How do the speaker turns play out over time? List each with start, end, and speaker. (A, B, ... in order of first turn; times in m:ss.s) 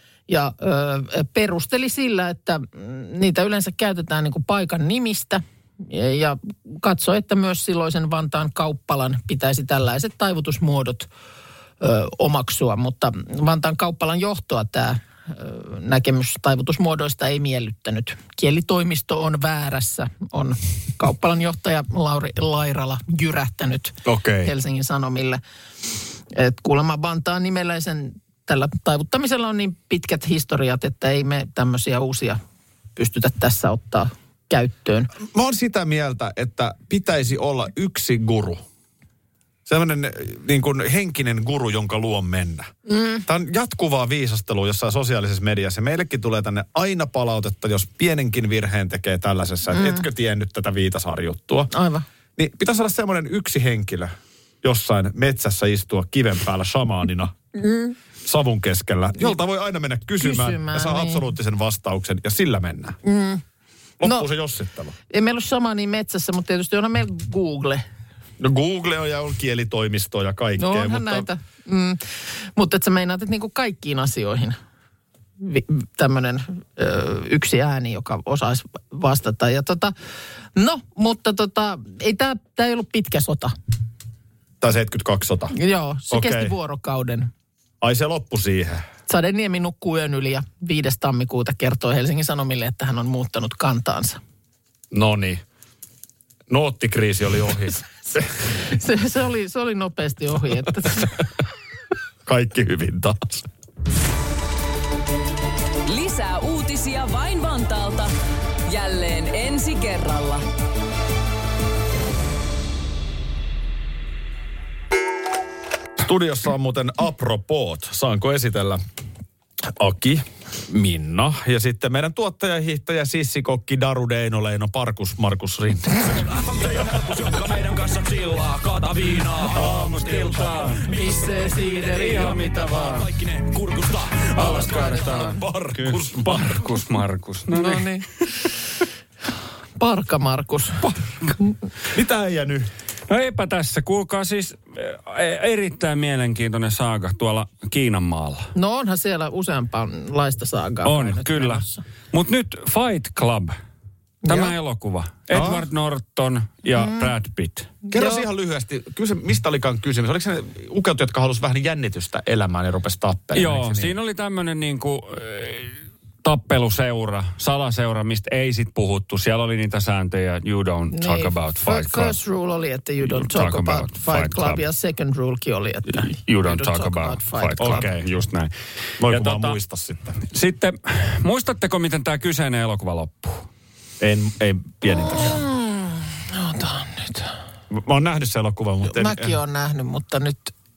0:00.3-0:11.1 A
0:11.8-0:25.4 A
0:24.0-0:24.5 B
0:26.3-0:32.4 A
0:33.0-0:35.1 A
0:35.2-0:38.6 B
0:39.6-0:42.7 B
0:42.9-0:43.2 A
0:43.2-0:51.7 B
0:49.7-0:50.0 A
0:51.7-0:52.0 A
0:52.4-0:57.3 B
0:57.5-0:58.0 A
0:58.2-1:03.0 B
1:00.2-1:01.2 A
1:03.0-1:03.4 A
1:04.0-1:04.9 B
1:04.0-1:04.3 A
1:05.1-1:07.8 A
1:08.4-1:11.3 B
1:10.6-1:12.0 A
1:12.6-1:14.6 A
1:15.4-1:19.9 A
1:20.5-1:23.5 A
1:24.6-1:25.5 B
1:25.5-1:27.3 A
1:26.1-1:26.5 B
1:27.8-1:28.8 B
1:29.1-1:34.2 A
1:34.9-1:35.4 B
1:36.5-1:38.3 B
1:38.5-1:41.1 A
1:42.2-1:43.4 B
1:45.8-1:48.1 C
1:48.6-1:50.4 C
1:56.0-1:58.8 B
1:59.6-2:06.3 B
2:06.3-2:09.1 D
2:09.0-2:11.1 E
2:09.6-2:09.9 B
2:10.9-2:12.4 A
2:11.6-2:13.1 E
2:13.1-2:14.2 D
2:14.3-2:17.9 E
2:14.4-2:16.7 B
2:14.4-2:15.4 A
2:17.5-2:18.1 A
2:19.8-2:20.9 A
2:21.9-2:22.7 B
2:23.1-2:28.5 E
2:28.5-2:31.8 A
2:30.8-2:33.5 E
2:34.2-2:34.5 A
2:34.3-2:37.8 E
2:35.3-2:35.7 B
2:36.7-2:37.1 A
2:37.9-2:38.2 A
2:37.9-2:43.9 B
2:43.3-2:52.2 E
2:50.9-2:57.9 A
2:53.0-2:54.6 E
2:55.9-2:58.5 E
2:57.6-2:58.1 B
2:59.0-3:00.2 B
2:59.0-2:59.6 E
3:00.3-3:03.4 E
3:04.0-3:05.4 B
3:04.9-3:07.3 A
3:07.7-3:09.4 B
3:08.8-3:10.5 A